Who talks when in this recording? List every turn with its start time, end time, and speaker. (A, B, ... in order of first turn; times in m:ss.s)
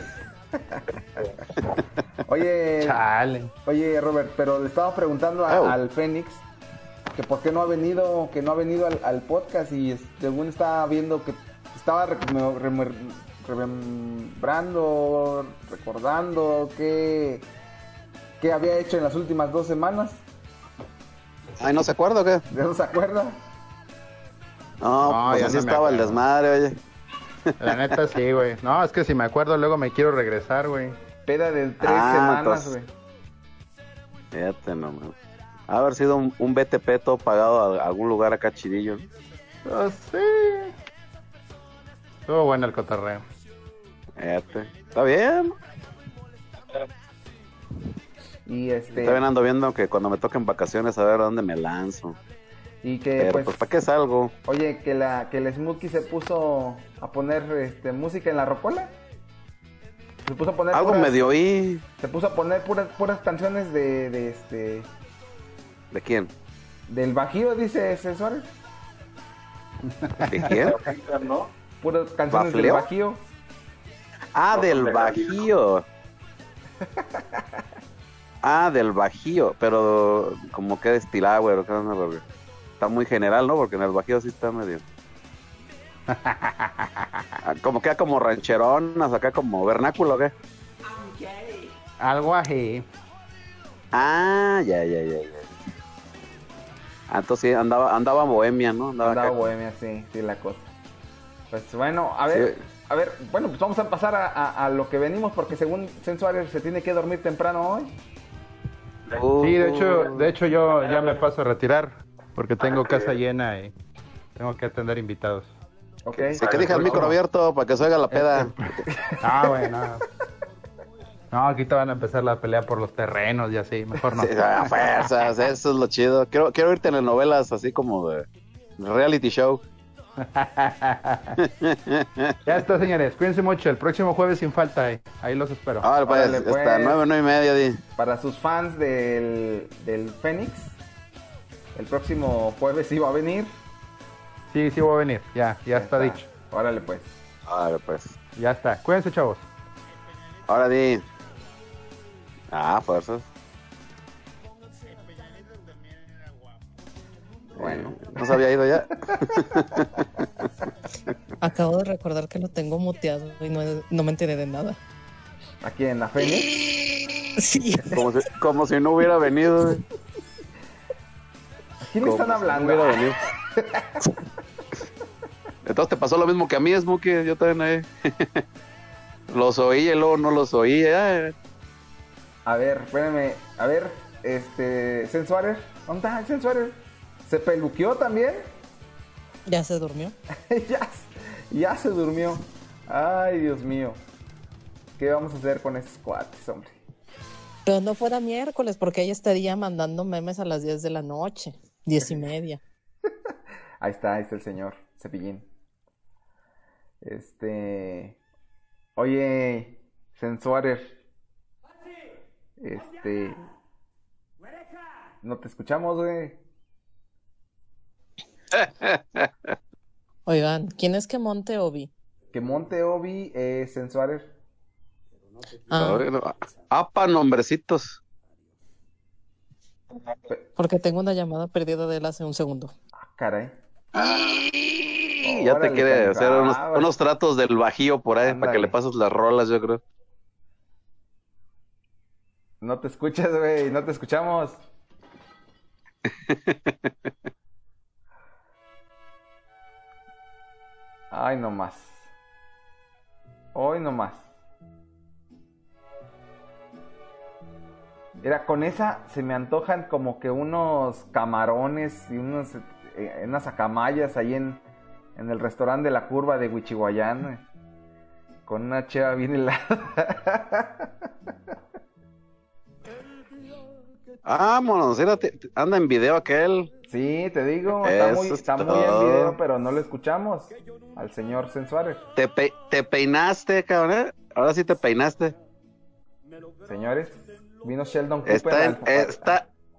0:02.2-0:03.0 A
0:02.8-0:03.5 B
0:03.6-0:06.4 A
0:05.5-0:05.7 C
0:07.1-0:17.5 A
0:18.4-0:20.2 A
0:21.6-0:22.4 C
0:22.5-0:23.4 A
0:24.8-0:26.8 C
0:25.0-0:26.2 B
0:27.6-0:30.9 B
0:31.2-0:32.9 A
0:31.8-0:32.7 C
0:34.3-0:35.1 C
0:35.7-0:39.1 C
0:39.6-0:40.7 B
0:42.3-0:43.2 B
0:44.2-0:45.5 C
0:48.4-0:49.2 A
0:48.9-0:52.2 C
0:52.8-0:53.5 A
0:53.2-0:54.3 C
0:54.4-0:58.9 A
1:00.2-1:01.3 A
1:00.7-1:01.8 C
1:02.0-1:04.9 A
1:05.9-1:06.3 C
1:06.9-1:08.5 A
1:10.0-1:10.4 B
1:10.3-1:10.8 C
1:10.4-1:11.5 D
1:11.8-1:13.2 A
1:12.3-1:12.9 C
1:14.3-1:15.8 C
1:14.5-1:15.5 D
1:18.4-1:22.2 C
1:22.8-1:24.8 C
1:26.1-1:27.3 B
1:27.4-1:30.3 C
1:32.0-1:32.8 B
1:33.9-1:35.6 C
1:37.1-1:39.4 C
1:39.0-1:40.7 A
1:41.5-1:47.9 A
1:42.3-1:42.6 C
1:49.2-1:50.3 C
1:49.4-1:53.7 B
1:50.8-1:51.2 D
1:52.6-1:53.2 D
1:54.4-1:55.5 B
1:56.0-1:56.4 A
1:56.2-1:58.5 C
1:56.4-1:57.0 D
1:56.5-1:57.2 B
1:58.4-2:00.0 B
1:58.9-1:59.1 A
2:01.3-2:05.3 B
2:04.1-2:08.2 C
2:08.8-2:09.6 C
2:10.2-2:11.4 B
2:11.4-2:12.4 C
2:12.4-2:15.9 B
2:15.8-2:17.8 C
2:16.0-2:17.0 A
2:18.0-2:20.8 A
2:21.7-2:23.5 A
2:24.5-2:26.3 B
2:25.7-2:27.1 A
2:27.5-2:28.1 C
2:28.4-2:29.4 B
2:30.5-2:31.0 C
2:32.5-2:33.3 C
2:37.6-2:38.4 A
2:37.6-2:40.1 C
2:41.4-2:44.8 E
2:45.6-2:46.5 A
2:47.4-2:48.0 E
2:47.9-2:49.8 C
2:51.8-2:53.0 A
2:52.0-2:53.2 C
2:53.6-2:53.9 A
2:55.6-2:58.4 C
2:59.3-3:01.3 C
3:02.4-3:08.5 A
3:09.4-3:10.2 E
3:10.5-3:14.0 A
3:15.0-3:16.8 A
3:17.6-3:22.6 E
3:23.8-3:25.5 A
3:27.0-3:28.2 A
3:29.0-3:31.0 A
3:32.6-3:33.5 A
3:35.2-3:36.4 A
3:38.5-3:39.3 C
3:40.2-3:41.9 E
3:42.3-3:44.3 A
3:45.7-3:46.0 E
3:45.7-3:48.0 C
3:50.6-3:52.7 E
3:53.0-3:53.6 A
3:53.9-3:59.8 C
3:55.2-3:56.9 A
3:58.2-3:58.8 A
4:02.6-4:04.6 A
4:06.3-4:06.9 C
4:11.1-4:12.1 A
4:13.5-4:14.3 A
4:18.2-4:24.6 A
4:25.2-4:27.4 A
4:28.4-4:31.0 A
4:34.2-4:36.7 C
4:36.9-4:42.0 A
4:37.7-4:39.4 C
4:42.2-4:45.3 C
4:46.6-4:49.4 A
4:48.2-4:49.5 C